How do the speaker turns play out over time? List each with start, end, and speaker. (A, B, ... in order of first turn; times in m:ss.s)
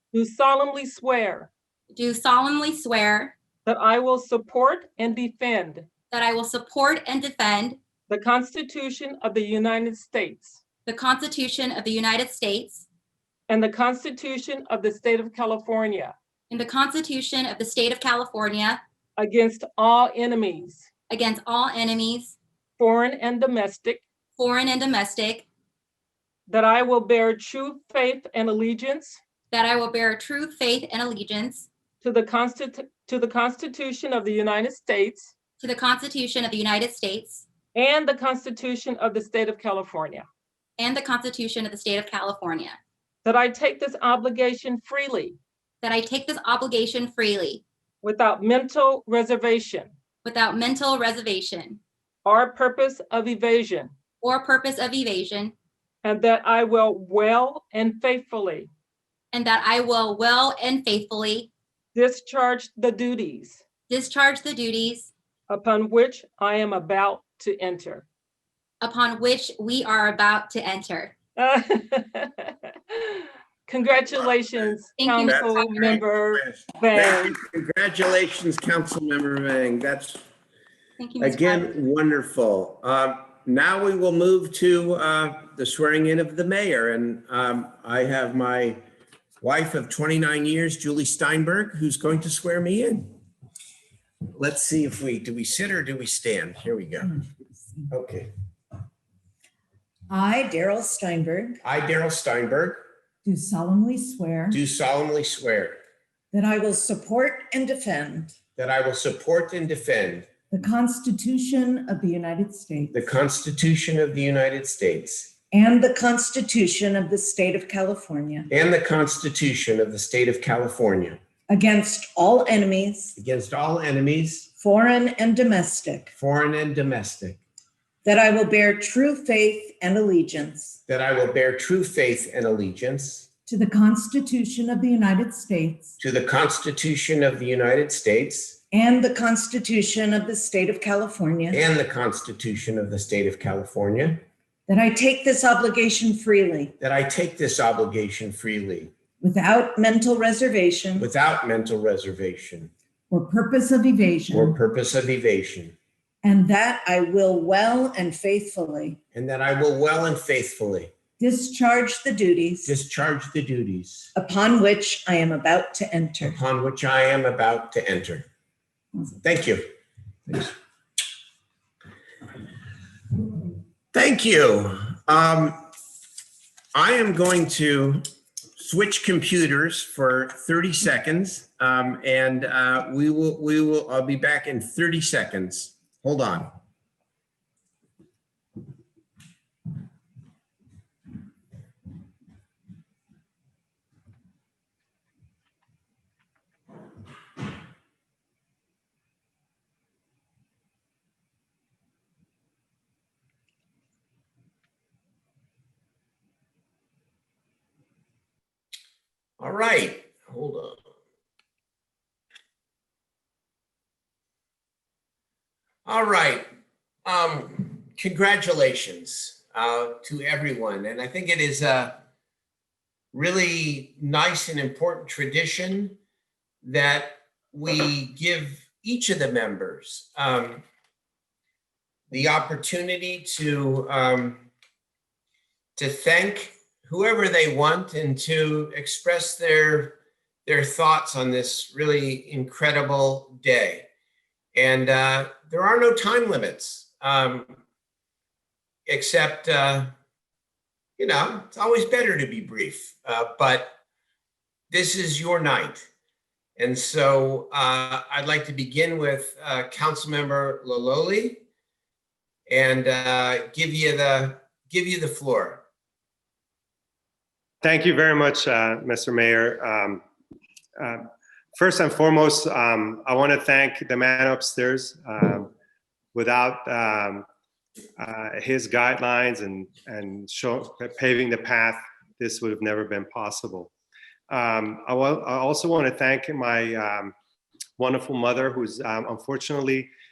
0:00.1-0:01.5 A
0:01.9-0:03.3 B
0:03.6-0:05.9 A
0:06.1-0:07.8 B
0:08.1-0:10.6 A
0:10.8-0:12.8 B
0:13.5-0:16.1 A
0:16.5-0:18.8 B
0:19.2-0:20.8 A
0:21.1-0:22.4 B
0:22.8-0:24.0 A
0:24.4-0:25.5 B
0:26.5-0:29.2 A
0:29.5-0:31.7 B
0:32.0-0:35.3 A
0:35.6-0:37.5 B
0:37.7-0:40.2 A
0:40.8-0:42.8 B
0:43.2-0:45.4 A
0:45.8-0:47.6 B
0:48.0-0:49.9 A
0:50.2-0:51.8 B
0:52.2-0:53.9 A
0:54.2-0:55.5 B
0:56.0-0:58.7 A
0:59.3-1:01.5 B
1:01.9-1:03.6 A
1:03.9-1:05.1 B
1:05.5-1:08.0 A
1:08.8-1:11.1 B
1:11.4-1:12.3 A
1:13.7-1:17.3 A
1:14.1-1:20.2 C
1:15.0-1:16.0 B
1:21.0-1:21.7 B
1:21.2-1:28.8 C
1:29.4-1:33.1 C
1:34.3-1:37.1 C
1:37.0-1:37.9 D
1:37.9-1:38.3 C
1:40.1-1:41.6 D
1:41.6-1:42.8 C
1:43.2-1:44.6 D
1:44.5-1:45.8 C
1:46.3-1:48.3 D
1:48.6-1:50.3 C
1:50.5-1:53.0 D
1:52.9-1:55.3 C
1:55.5-1:58.5 D
1:58.5-2:01.2 C
2:01.5-2:03.2 D
2:03.2-2:04.5 C
2:04.6-2:06.1 D
2:06.2-2:07.4 C
2:08.0-2:10.8 D
2:10.9-2:13.3 C
2:13.5-2:15.9 D
2:16.0-2:18.6 C
2:18.7-2:21.6 D
2:21.5-2:24.2 C
2:24.7-2:26.7 D
2:26.8-2:28.9 C
2:29.2-2:31.1 D
2:31.0-2:32.7 C
2:33.1-2:34.6 D
2:34.3-2:35.7 C
2:36.2-2:39.0 D
2:39.1-2:40.9 C
2:41.2-2:42.7 D
2:42.6-2:44.1 C
2:44.1-2:46.4 D
2:46.2-2:48.2 C
2:49.2-2:49.6 C
2:50.3-2:50.5 C
2:53.9-2:55.6 C
2:56.7-2:58.0 C
2:58.6-3:06.5 C
3:29.4-3:30.8 C
3:35.8-3:36.4 C
3:37.0-3:41.9 C
3:43.1-3:46.0 C
3:46.6-3:50.6 C
3:52.1-3:54.5 C
3:55.8-4:03.9 C
4:04.5-4:07.5 C
4:08.9-4:09.9 C
4:11.0-4:13.7 C
4:14.7-4:15.8 C
4:16.6-4:21.4 C
4:22.5-4:25.6 C
4:27.6-4:30.0 E
4:31.5-4:35.5 E
4:36.1-4:37.2 E
4:38.0-4:43.7 E
4:44.3-4:47.1 E
4:47.8-4:49.9 E